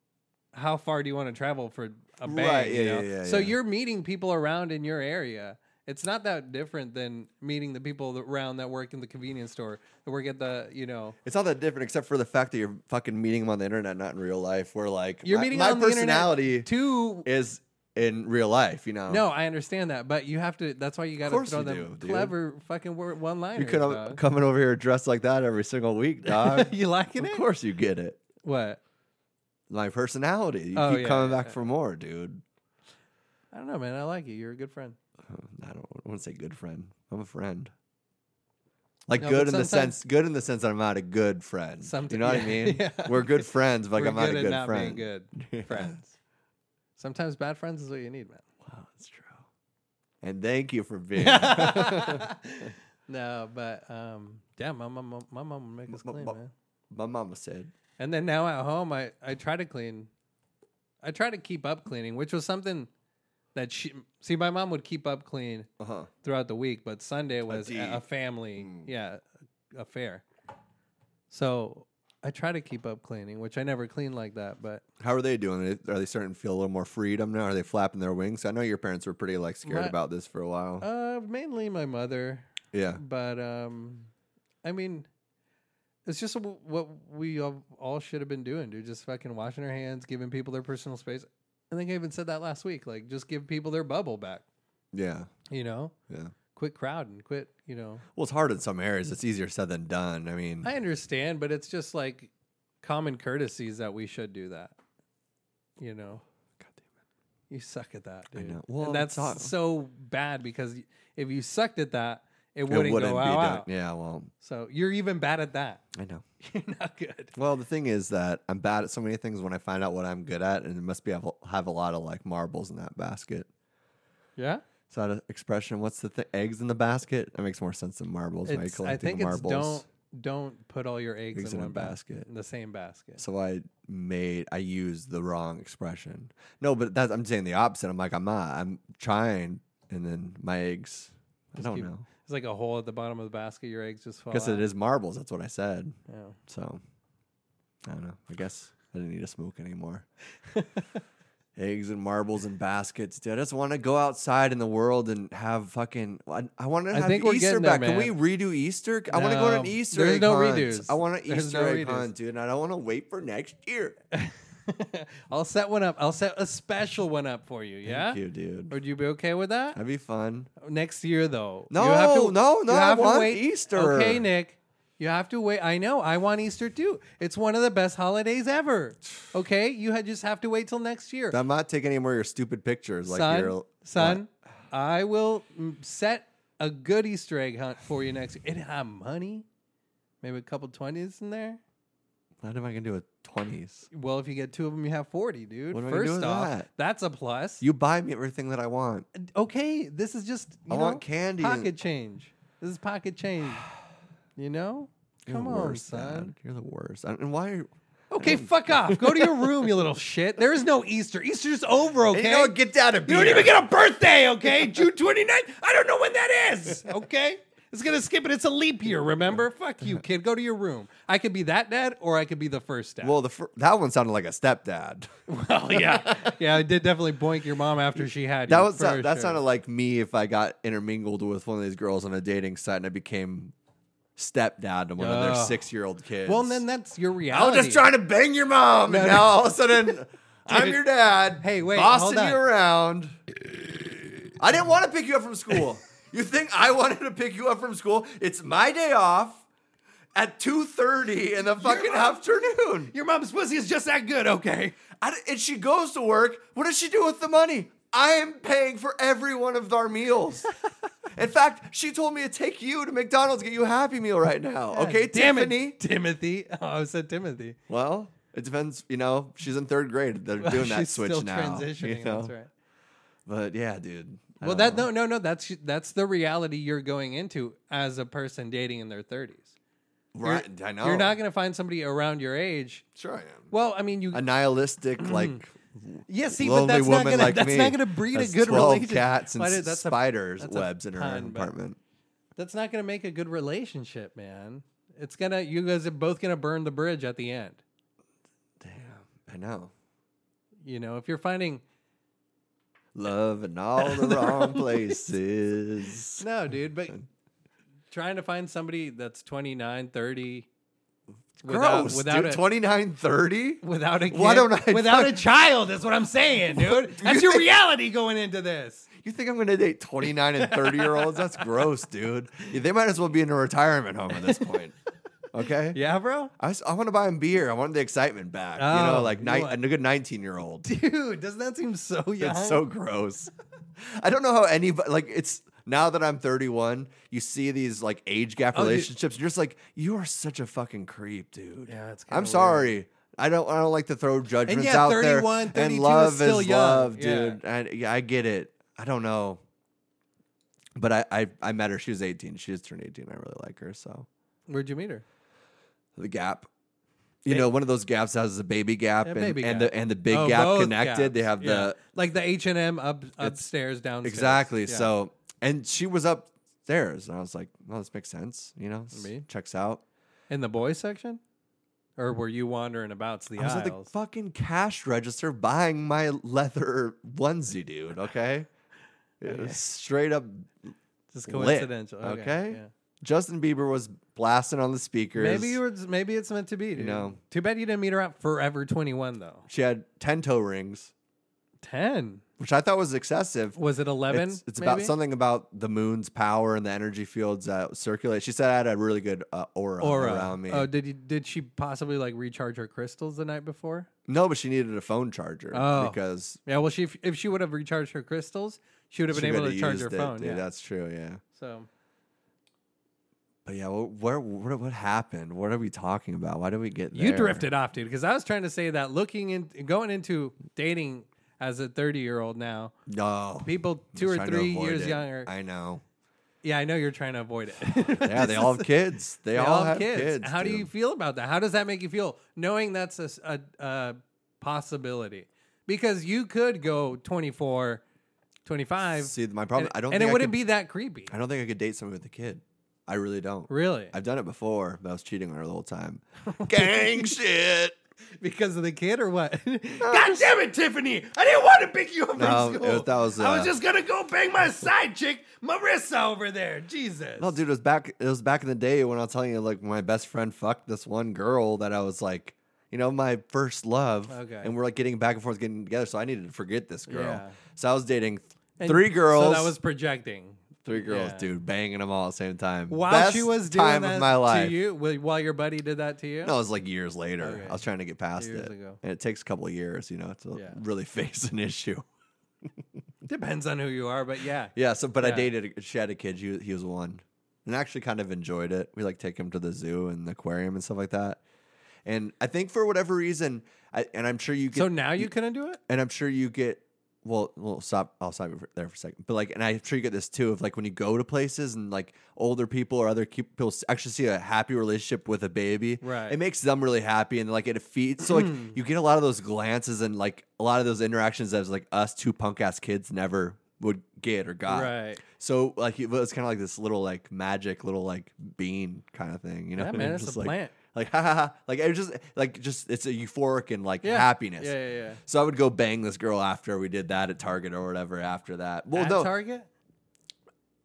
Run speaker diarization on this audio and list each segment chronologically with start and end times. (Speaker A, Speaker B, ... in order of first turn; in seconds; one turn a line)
Speaker A: 0.5-11.2
Speaker B: 2.2-3.5
Speaker B: 11.2-16.7
Speaker A: 15.2-17.3
Speaker B: 17.2-19.2
Speaker A: 19.1-24.2
Speaker B: 21.2-22.3
Speaker B: 23.6-28.2
Speaker A: 26.2-27.4
Speaker A: 28.4-28.8
Speaker B: 29.7-32.4
Speaker A: 30.7-31.6
Speaker A: 33.5-35.0
Speaker B: 35.3-37.7
Speaker B: 39.1-46.0
Speaker A: 39.2-39.9
Speaker A: 41.8-46.1
Speaker A: 47.0-48.4
Speaker B: 48.6-49.5
Speaker B: 50.2-52.3
Speaker A: 51.2-56.5
Speaker B: 55.9-56.4
Speaker B: 56.9-57.7
Speaker A: 58.0-60.1
Speaker A: 61.0-62.9
Speaker A: 63.5-65.7
Speaker B: 65.8-66.1
Speaker A: 66.2-70.2
Speaker B: 67.5-68.0
Speaker B: 68.6-68.9
Speaker A: 71.3-74.8
Speaker B: 75.0-80.8
Speaker A: 79.7-79.9
Speaker A: 80.8-84.1
Speaker B: 82.7-83.0
Speaker A: 84.6-85.1
Speaker A: 86.0-94.4
Speaker B: 94.9-95.3
Speaker A: 95.5-95.9
Speaker A: 96.5-98.0
Speaker B: 98.1-100.7
Speaker A: 100.6-102.3
Speaker A: 102.8-104.8
Speaker A: 105.8-106.2
Speaker B: 106.6-106.8
Speaker A: 107.5-113.7
Speaker B: 108.3-109.5
Speaker B: 112.7-114.3
Speaker A: 114.4-115.8
Speaker B: 115.9-116.2
Speaker A: 116.4-117.3
Speaker B: 117.3-123.5
Speaker A: 124.3-124.6
Speaker B: 124.9-129.8
Speaker A: 128.4-133.2
Speaker B: 131.3-132.3
Speaker B: 133.2-142.1
Speaker A: 141.6-144.7
Speaker B: 144.3-145.9
Speaker A: 146.1-146.4
Speaker B: 146.5-146.8
Speaker B: 147.8-150.1
Speaker A: 150.5-150.9
Speaker B: 151.6-164.0
Speaker A: 156.9-158.2
Speaker A: 159.1-162.1
Speaker A: 164.1-169.8
Speaker B: 167.8-168.8
Speaker B: 169.8-170.5
Speaker A: 170.6-181.4
Speaker B: 171.7-174.2
Speaker B: 181.3-184.2
Speaker A: 183.1-189.4
Speaker A: 190.2-191.6
Speaker B: 192.4-193.9
Speaker A: 193.9-197.6
Speaker B: 195.7-196.7
Speaker B: 197.6-199.1
Speaker A: 199.1-203.7
Speaker B: 200.7-201.7
Speaker A: 204.4-206.3
Speaker B: 205.2-209.7
Speaker A: 208.1-212.5
Speaker B: 212.1-213.6
Speaker A: 213.1-223.1
Speaker B: 223.0-225.1
Speaker A: 225.3-229.4
Speaker B: 225.7-226.4
Speaker B: 228.5-233.5
Speaker B: 234.2-236.6
Speaker A: 235.0-235.7
Speaker A: 236.2-237.9
Speaker B: 237.3-243.1
Speaker A: 238.9-239.9
Speaker A: 240.5-240.8
Speaker A: 241.4-242.4
Speaker B: 244.3-249.4
Speaker B: 250.1-252.9
Speaker A: 251.6-252.2
Speaker A: 252.9-254.8
Speaker B: 255.0-260.5
Speaker B: 261.1-265.8
Speaker A: 264.7-267.6
Speaker B: 267.7-272.3
Speaker A: 270.4-272.5
Speaker B: 273.2-274.9
Speaker A: 274.4-279.5
Speaker B: 280.1-281.1
Speaker A: 280.2-282.8
Speaker B: 282.9-283.5
Speaker A: 283.5-284.2
Speaker B: 284.1-291.8
Speaker A: 285.0-285.4
Speaker A: 286.1-291.5
Speaker A: 292.4-297.6
Speaker B: 298.6-299.7
Speaker A: 300.6-301.6
Speaker B: 302.9-306.2
Speaker A: 303.8-305.0
Speaker A: 306.2-307.0
Speaker A: 307.9-310.5
Speaker B: 311.4-315.2
Speaker A: 311.4-312.4
Speaker A: 313.6-318.9
Speaker B: 316.5-317.5
Speaker B: 319.0-324.7
Speaker A: 320.3-321.6
Speaker A: 324.1-324.6
Speaker B: 325.3-325.8
Speaker A: 325.7-326.3
Speaker B: 326.4-330.7
Speaker A: 328.6-329.6
Speaker A: 330.6-332.6
Speaker B: 332.2-349.4
Speaker A: 338.5-338.9
Speaker A: 341.7-342.7
Speaker A: 344.4-347.4
Speaker B: 350.8-354.1
Speaker A: 354.5-355.0
Speaker B: 355.9-356.5
Speaker B: 357.2-361.8
Speaker A: 359.0-364.9
Speaker B: 363.2-363.5
Speaker B: 364.0-369.8
Speaker A: 368.9-369.2
Speaker A: 370.3-371.2
Speaker A: 372.0-373.9
Speaker B: 373.4-378.5
Speaker B: 379.2-380.7
Speaker A: 379.2-379.6
Speaker A: 381.1-382.7
Speaker B: 381.3-385.6
Speaker A: 385.1-389.5
Speaker B: 386.7-387.2
Speaker B: 389.5-390.9
Speaker A: 391.6-392.2
Speaker B: 392.4-400.7
Speaker A: 393.6-394.9
Speaker A: 399.8-403.9
Speaker B: 404.1-406.4
Speaker A: 405.5-410.4
Speaker B: 409.1-411.2
Speaker A: 411.3-411.7
Speaker B: 413.4-417.4
Speaker A: 416.9-422.7
Speaker B: 422.9-425.8
Speaker A: 423.4-425.3
Speaker A: 426.4-428.7
Speaker B: 428.0-430.7
Speaker A: 429.3-437.8
Speaker A: 438.4-441.1
Speaker B: 438.9-440.4
Speaker B: 441.1-447.7
Speaker A: 443.5-443.9
Speaker A: 446.3-447.1
Speaker A: 448.2-457.4
Speaker B: 449.8-450.3
Speaker B: 452.2-453.5
Speaker B: 457.2-469.5
Speaker A: 464.1-464.5
Speaker A: 466.9-467.4
Speaker A: 468.6-471.3
Speaker B: 470.6-474.6
Speaker A: 472.7-476.3
Speaker B: 476.2-481.8
Speaker A: 477.2-477.6
Speaker A: 478.2-478.8
Speaker A: 480.3-480.6
Speaker A: 483.0-485.3
Speaker B: 484.5-491.2
Speaker B: 491.8-495.1
Speaker A: 494.5-495.6
Speaker B: 495.7-529.1
Speaker A: 505.8-506.2
Speaker A: 508.0-508.6
Speaker A: 514.5-515.0
Speaker A: 519.5-520.5
Speaker A: 523.8-525.0
Speaker A: 528.7-529.5